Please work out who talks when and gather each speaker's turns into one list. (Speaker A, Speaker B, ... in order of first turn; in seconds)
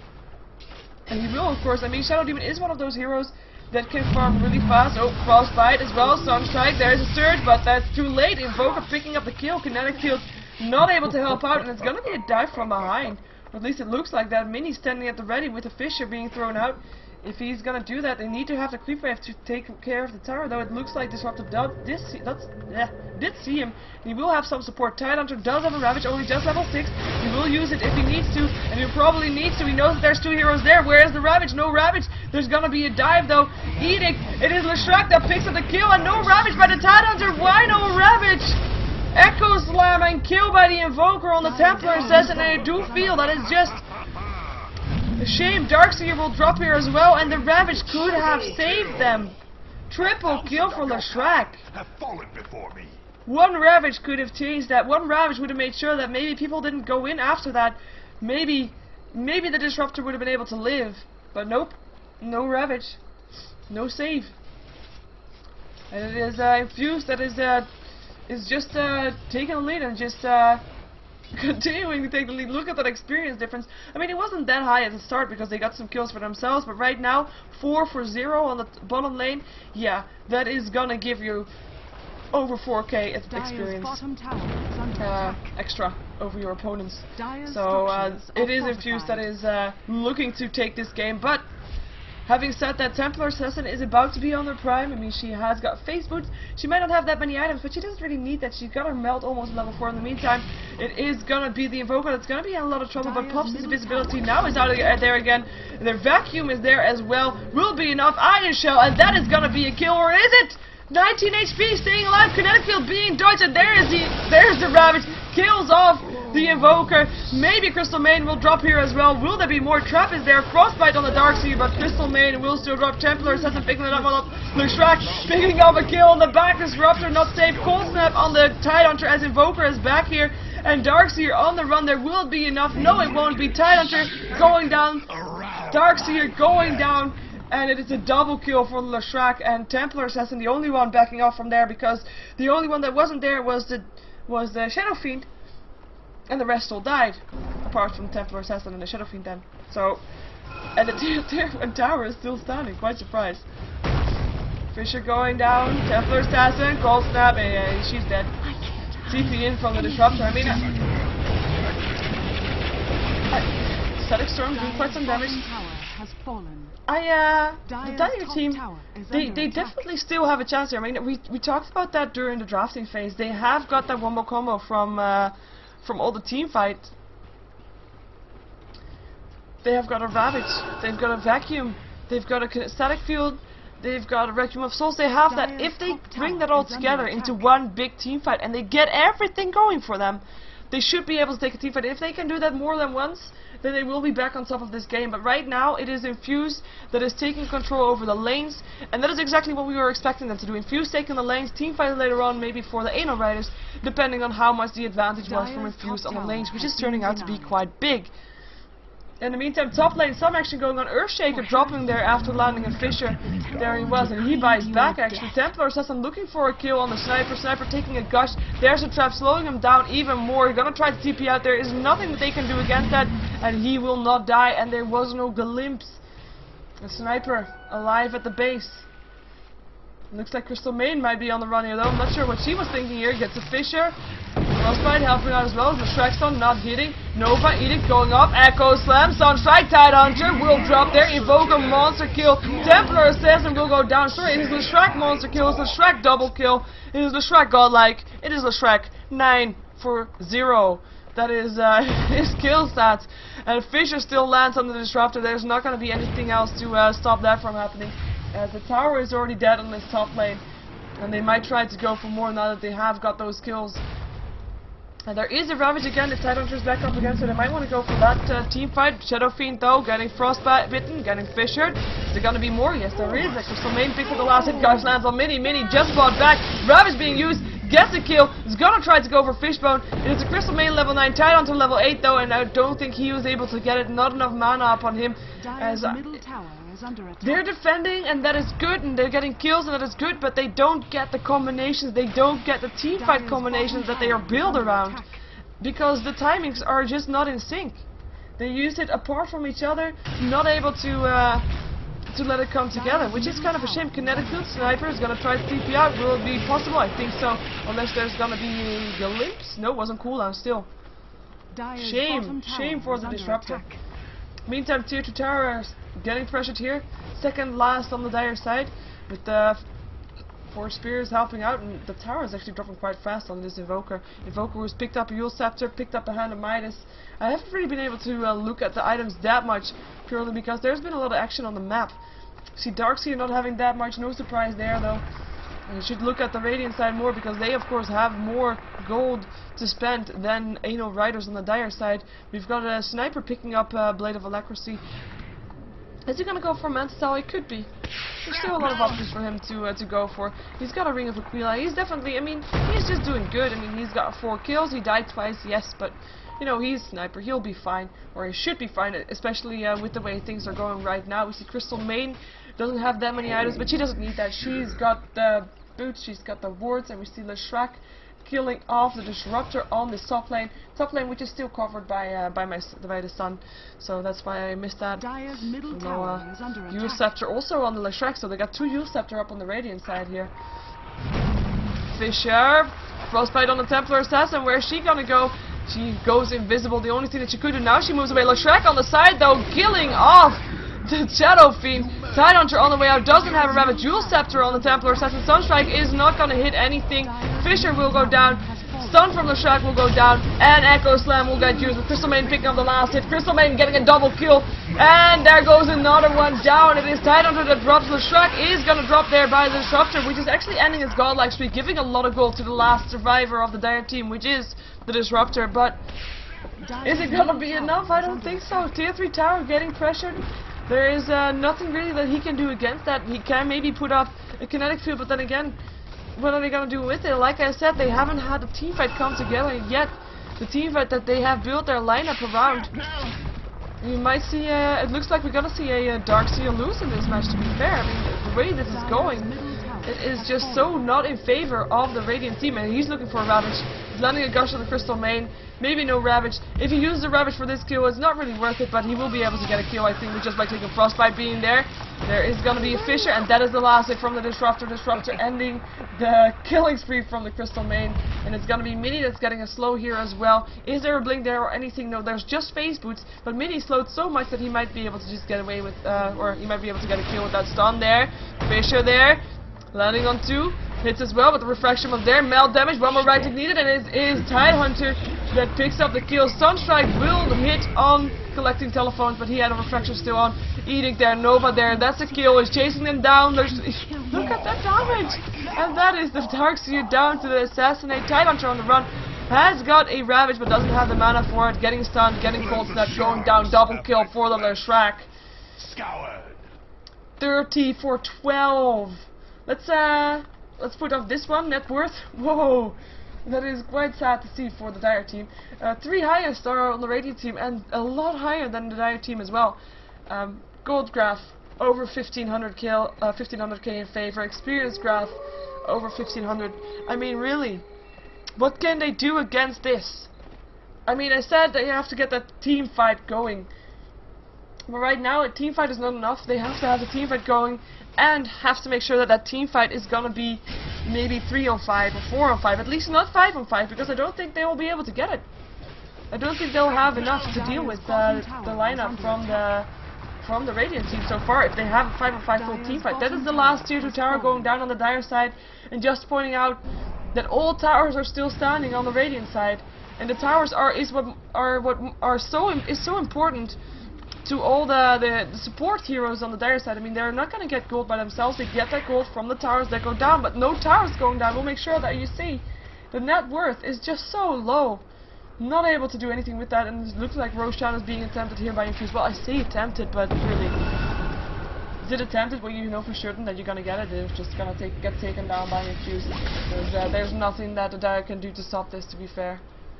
Speaker A: 1.1-38.6, 39.1-43.8, 45.2-49.4, 49.9-51.6, 53.3-63.0, 63.7-64.3, 65.9-67.7, 68.3-70.6, 71.3-81.5, 82.3-84.0, 85.0-91.5, 92.2-135.1, 135.7-145.3, 146.3-150.0, 150.8-153.4, 154.7-158.3, 159.1-160.7, 163.3-165.4, 166.9-176.9, 179.6-208.1, 209.2-226.0, 226.8-228.9, 230.1-260.4, 261.0-263.8, 265.1-286.1, 287.2-295.0, 295.6-297.9, 298.4-301.4, 302.1-310.7, 311.8-313.6, 314.5-319.6, 320.5-332.0, 332.6-335.0, 335.7-344.8, 346.1-347.7, 348.2-375.0, 375.7-380.3, 381.9-415.8, 416.8-425.6, 426.1-432.7, 433.8-439.3, 439.9-495.1, 497.2-517.6, 518.4-520.1, 520.9-523.5, 524.7-535.3, 536.1-539.7, 540.2-553.6, 554.2-564.9, 565.4-570.6, 571.8-579.4
Speaker B: 36.9-37.9, 41.4-43.6, 83.3-85.5, 87.2-89.3, 103.0-105.1, 158.5-161.0, 164.5-166.8, 167.7-169.9, 185.2-187.6, 205.2-207.6, 211.3-215.5, 285.4-287.5, 292.9-295.2, 302.7-304.9, 311.5-313.8, 374.9-377.1, 392.9-395.3, 397.0-399.4, 416.6-418.7, 438.6-440.9, 483.7-484.3, 537.1-539.5, 542.3-544.6
Speaker C: 42.3-43.0, 50.2-53.0, 124.9-126.1, 126.8-128.3, 132.7-136.9, 213.2-213.6, 240.3-245.7, 391.9-392.5, 484.1-485.8, 492.3-494.7, 495.6-496.5